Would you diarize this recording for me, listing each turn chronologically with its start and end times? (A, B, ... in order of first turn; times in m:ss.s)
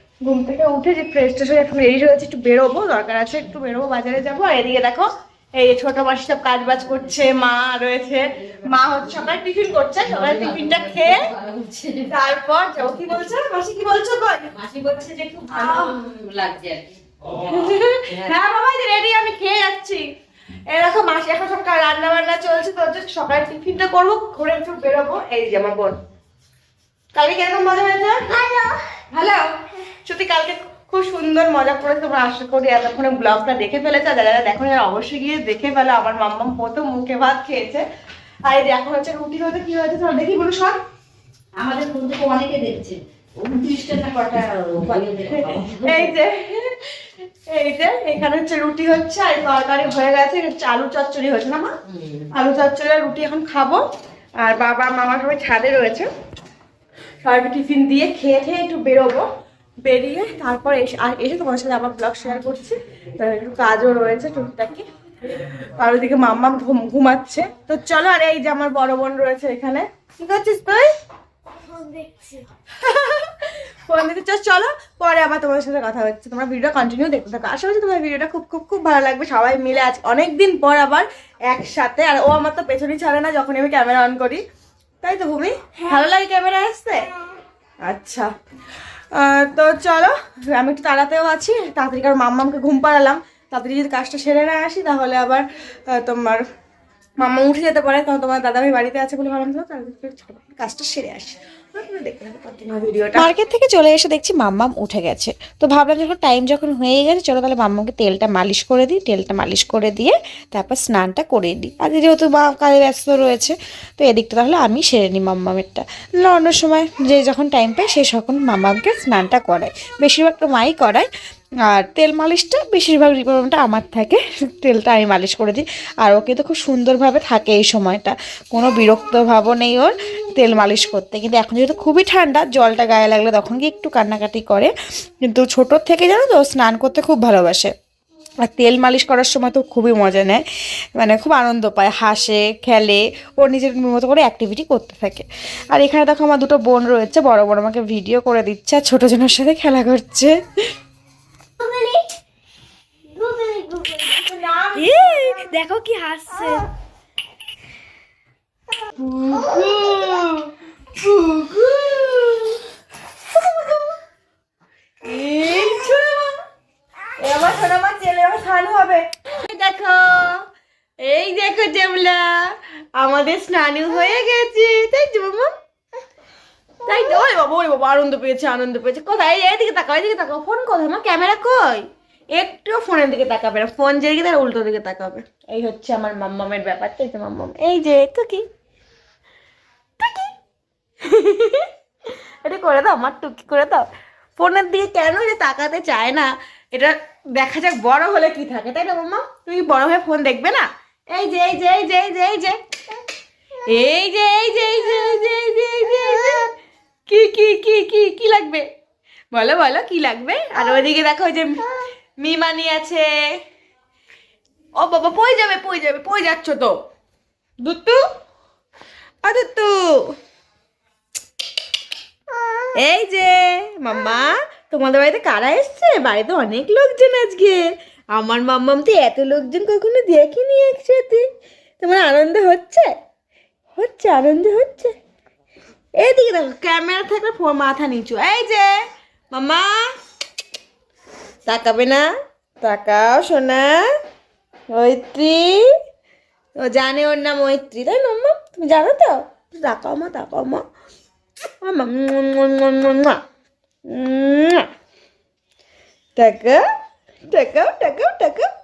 0:00.2-0:11.3 A
0:10.1-0:12.1 B
0:12.1-0:14.5 A
0:14.5-0:16.9 B
0:15.5-0:16.0 A
0:17.3-0:20.0 A
0:20.7-0:26.0 A
0:27.1-0:28.4 A
0:29.1-0:29.5 A
0:30.0-0:37.8 A
0:38.4-0:40.8 A
0:41.6-0:46.1 B
0:45.3-0:51.7 A
0:52.3-0:53.8 A
0:54.4-0:56.1 A
0:57.2-0:59.2 A
0:59.8-1:04.8 A
1:05.5-1:10.9 A
1:12.8-1:24.4 A
1:25.0-1:27.1 A
1:27.8-1:28.3 A
1:29.1-1:36.4 A
1:37.2-1:43.3 A
1:43.1-2:01.1 C
2:01.7-2:14.7 C
2:15.2-2:17.7 C
2:18.4-2:18.9 A
2:18.7-2:20.4 C
2:19.5-2:19.9 A
2:21.0-2:22.0 A
2:22.0-2:30.4 C
2:22.6-2:22.9 A
2:34.1-2:35.5 A
2:34.8-2:36.6 C
2:36.3-2:36.6 A
2:38.8-2:42.6 A
2:39.6-2:40.1 C
2:45.0-2:46.3 A
2:47.2-2:50.4 A
2:51.0-2:55.5 A
2:56.8-3:08.4 A
3:10.0-3:10.3 A
3:11.0-3:11.7 A
3:12.4-3:13.8 A
3:14.4-3:22.6 A
3:23.6-3:26.5 A
3:27.1-3:28.6 A
3:29.3-3:33.1 A
3:34.8-3:36.7 A
3:37.6-3:38.0 A
3:39.2-3:40.1 A
3:42.7-3:51.2 A
3:51.8-3:52.9 A
3:53.8-3:54.9 A
3:56.0-3:58.7 A
3:59.3-3:59.8 A
4:01.5-4:02.0 A
4:02.6-4:03.8 A
4:04.7-4:05.6 A
4:06.6-4:10.6 A
4:11.6-4:13.2 A
4:13.9-4:14.6 A
4:16.2-4:16.6 A
4:17.3-4:18.4 A